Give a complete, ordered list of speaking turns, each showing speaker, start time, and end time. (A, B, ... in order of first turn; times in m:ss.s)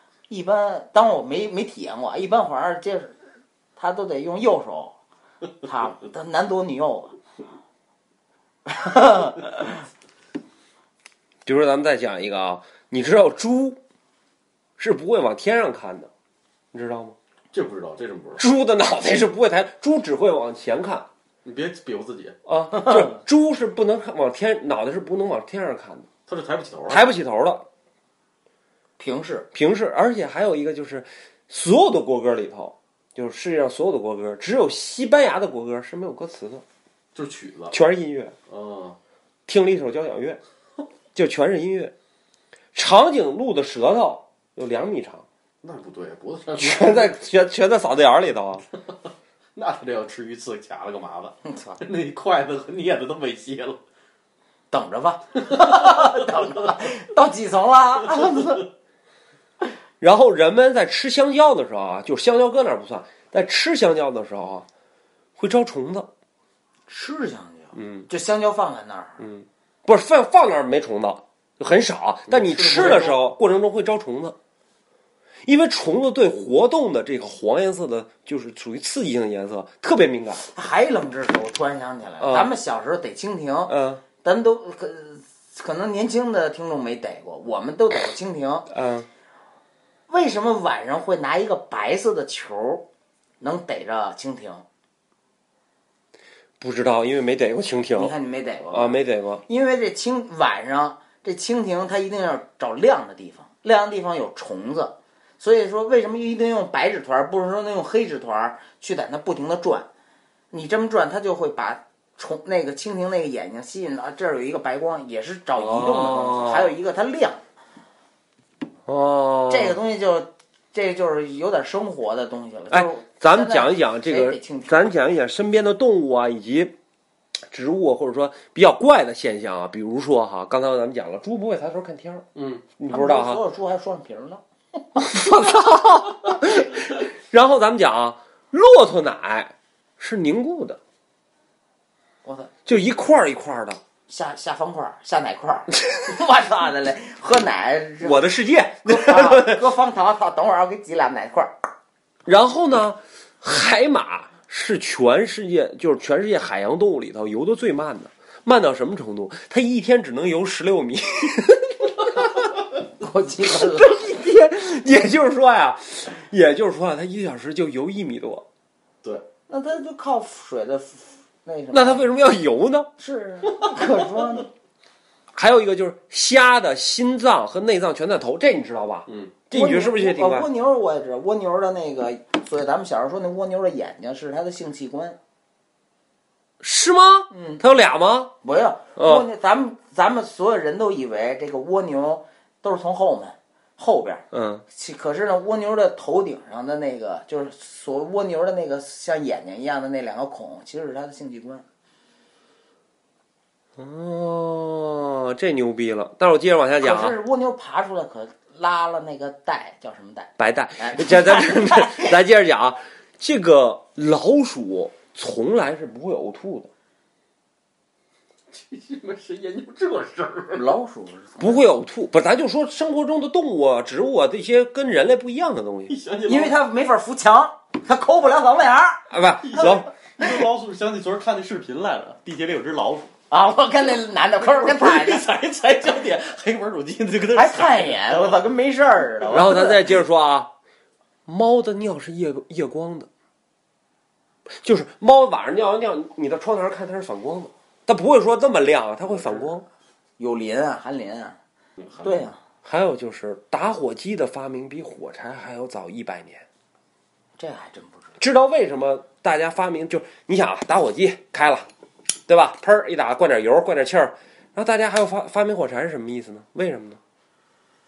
0:00.3-0:03.2 A
0:03.8-0:05.0 A
0:05.6-0:07.2 A
0:08.6-0:09.8 A
0:11.4-0:13.8 B
0:14.8-0:16.1 B
0:16.7-0:17.2 B
0:17.5-0:18.4 C
0:18.4-0:21.1 B
0:21.4-0:22.4 C
0:22.5-0:26.1 B
0:22.8-0:23.1 A
0:26.3-0:27.1 C
0:26.9-0:27.7 B
0:29.0-0:29.5 A
0:29.5-0:36.6 B
0:37.1-0:37.8 C
0:37.7-0:38.3 B
0:38.5-0:39.0 C
0:39.5-0:40.4 B
0:41.1-0:41.9 B
0:42.7-0:45.2 B
0:45.6-0:47.2 C
0:46.6-0:48.6 B
0:49.6-0:53.8 C
0:51.4-0:51.8 A
0:54.7-0:58.7 A
1:00.0-1:04.7 B
1:05.4-1:06.1 B
1:06.9-1:09.3 A
1:07.8-1:08.0 B
1:09.2-1:14.4 B
1:12.3-1:13.2 C
1:15.4-1:20.4 B
1:20.5-1:28.7 A
1:22.2-1:22.5 B
1:23.7-1:24.0 B
1:28.7-1:29.1 B
1:30.1-1:32.9 A
1:33.4-1:34.6 A
1:36.6-1:38.1 B
1:38.0-1:49.9 A
1:38.7-1:39.4 B
1:50.5-1:57.4 A
1:55.5-1:56.7 B
1:58.9-1:59.8 B
1:59.5-2:04.9 A
2:02.7-2:06.7 B
2:07.5-2:12.3 B
2:12.4-2:12.6 C
2:12.8-2:13.4 B
2:12.9-2:14.4 A
2:15.0-2:20.8 B
2:22.2-2:22.5 A
2:22.6-2:23.8 B
2:24.1-2:28.3 A
2:28.0-2:29.6 B
2:28.8-2:31.5 A
2:32.2-2:42.6 B
2:43.0-2:44.1 A
2:43.4-2:48.4 B
2:49.5-2:52.0 A
2:51.7-2:52.9 B
2:53.0-2:54.5 A
2:55.3-3:00.5 B
2:59.1-2:59.4 C
2:59.5-3:05.2 A
3:06.6-3:08.3 B
3:07.3-3:07.6 A
3:08.4-3:21.6 A
3:09.0-3:09.2 B
3:14.3-3:14.6 B
3:23.8-3:27.2 B
3:26.8-3:32.1 A
3:30.4-3:36.7 B
3:38.5-3:40.7 C
3:40.5-3:41.6 A
3:41.4-3:45.9 B
3:45.9-3:46.6 C
3:46.3-3:49.0 A
3:49.1-3:49.9 B
3:49.4-3:53.1 C
3:53.3-3:55.2 A
3:54.4-3:58.4 C
3:57.3-3:59.9 A
3:59.3-4:00.5 B
4:01.2-4:03.1 B
4:04.5-4:09.6 B
4:10.2-4:11.4 A
4:11.8-4:12.1 C
4:12.0-4:12.4 A
4:12.6-4:16.4 B
4:17.4-4:18.2 A
4:18.2-4:21.6 B
4:22.3-4:27.0 B